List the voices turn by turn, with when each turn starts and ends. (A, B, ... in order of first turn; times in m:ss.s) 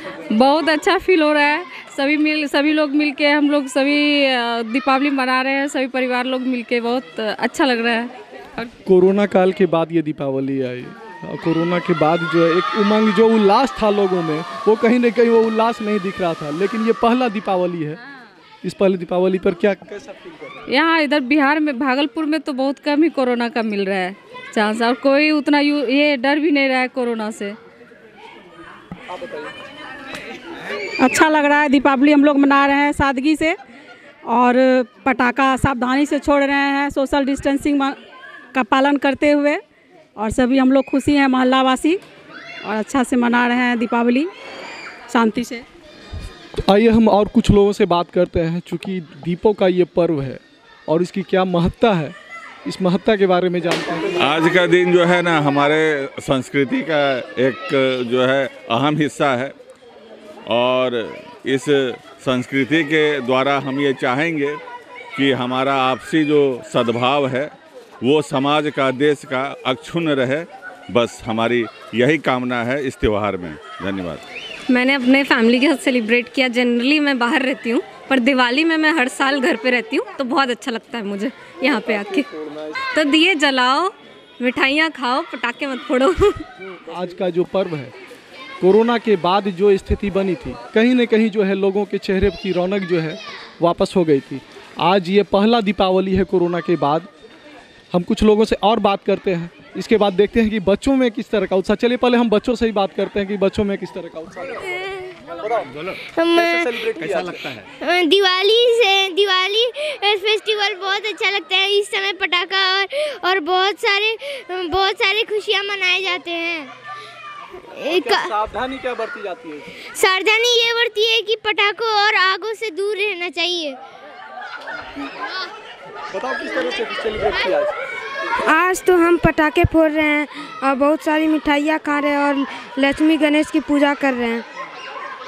0:00.3-0:08.1 A
0:08.8-0:18.0 B
0:18.6-0:20.6 B
0:20.7-0:27.5 A
0:29.1-0:29.5 B
0:31.0-0:33.6 C
0:34.3-0:38.0 C
0:38.5-0:39.6 C
0:40.2-0:42.0 C
0:42.6-0:44.3 C
0:45.1-0:45.6 C
0:46.6-0:54.3 B
0:54.2-0:59.5 D
1:00.5-1:04.6 D
1:05.2-1:14.2 D
1:15.1-1:16.3 E
1:19.3-1:20.9 E
1:23.1-1:23.4 E
1:25.5-1:25.9 E
1:26.8-1:27.9 B
1:28.6-1:37.1 B
1:37.9-1:44.7 B
1:44.7-1:45.1 F
1:46.1-1:46.8 F
1:46.4-1:47.5 B
1:47.8-1:56.7 F
1:57.8-1:58.3 F
1:57.8-1:59.7 B
1:59.9-2:03.8 F
2:06.1-2:07.7 B
2:08.5-2:14.4 G